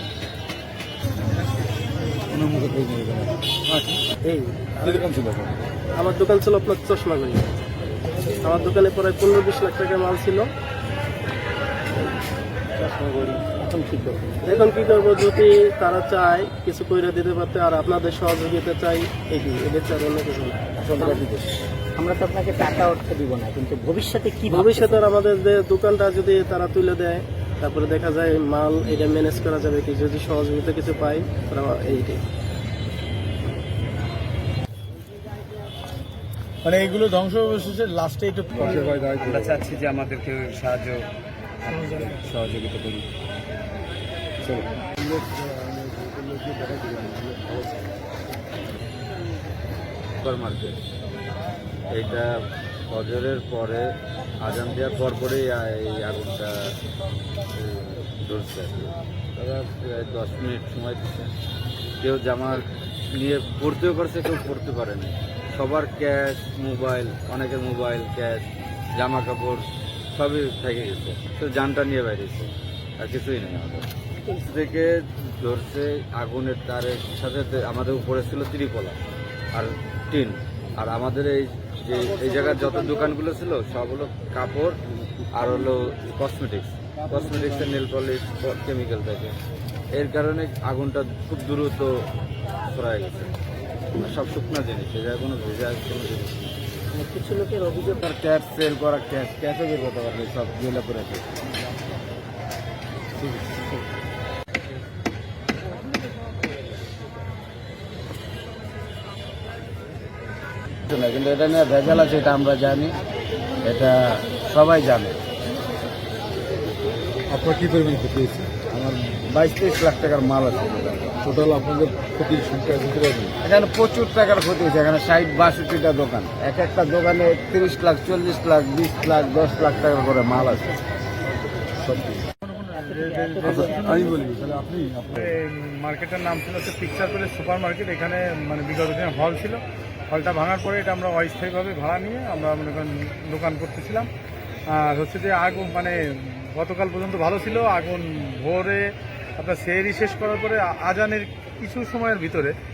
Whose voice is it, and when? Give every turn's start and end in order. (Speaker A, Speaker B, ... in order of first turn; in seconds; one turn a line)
Speaker A: 2.3-4.0
Speaker B: 4.3-5.0
Speaker A: 4.8-5.5
Speaker B: 6.0-7.5
Speaker B: 8.4-10.5
Speaker C: 13.4-14.6
Speaker B: 14.5-20.6
Speaker C: 20.8-21.3
Speaker D: 20.9-21.4
Speaker C: 22.0-25.1
Speaker B: 24.5-32.2
Speaker E: 36.6-39.0
Speaker A: 38.5-39.7
Speaker D: 39.2-41.1
Speaker D: 41.6-43.1
Speaker A: 44.6-47.8
Speaker D: 50.2-50.8
Speaker D: 51.9-52.3
Speaker D: 52.9-56.8
Speaker D: 57.6-61.3
Speaker D: 62.0-79.0
Speaker D: 79.5-84.8
Speaker D: 85.3-89.3
Speaker D: 89.9-91.9
Speaker D: 92.6-93.3
Speaker D: 94.0-96.5
Speaker C: 96.9-98.0
Speaker D: 98.0-101.4
Speaker D: 110.9-113.0
Speaker D: 113.6-115.2
Speaker A: 117.3-118.6
Speaker D: 118.7-121.2
Speaker A: 121.2-123.4
Speaker D: 123.4-130.7
Speaker A: 131.8-132.3
Speaker E: 132.5-134.1
Speaker C: 132.9-134.2
Speaker A: 133.4-135.3
Speaker E: 135.2-139.6
Speaker E: 140.1-144.1
Speaker E: 144.7-152.6